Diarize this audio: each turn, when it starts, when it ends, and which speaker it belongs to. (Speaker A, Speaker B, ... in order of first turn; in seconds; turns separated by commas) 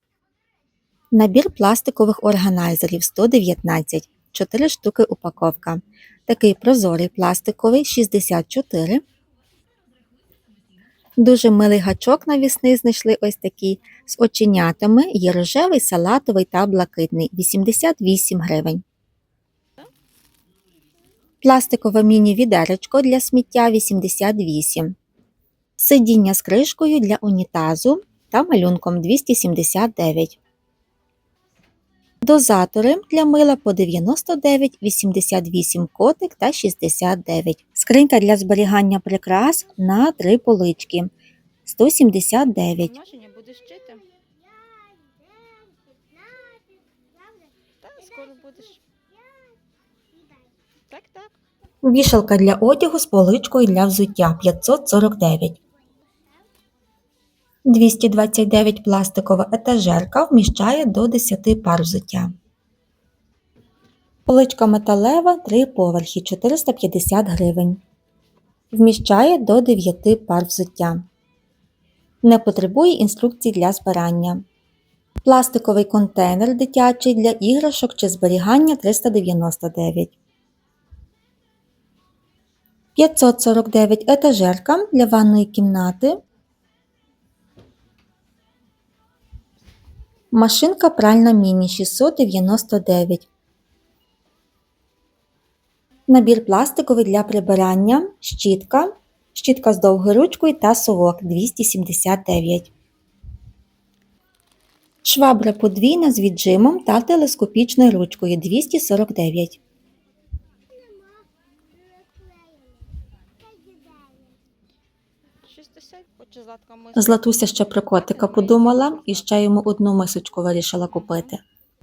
Speaker A: 1.1-9.0, Speaker A: 11.2-18.8, Speaker A: 21.4-24.9, Speaker A: 25.8-30.4, Speaker A: 32.2-41.1, Speaker A: 41.6-42.9, Speaker B: 42.8-44.0, Speaker B: 47.8-48.8, Speaker B: 50.9-51.4, Speaker A: 51.8-55.6, Speaker A: 57.6-62.3, Speaker A: 64.3-67.8, Speaker A: 68.7-71.0, Speaker A: 72.2-74.4, Speaker A: 75.2-80.1, Speaker A: 83.0-86.2, Speaker A: 90.3-93.3, Speaker A: 96.1-102.7, Speaker A: 105.0-109.6, Speaker B: 115.4-119.4, Speaker A: 117.0-121.4, Speaker B: 120.9-121.3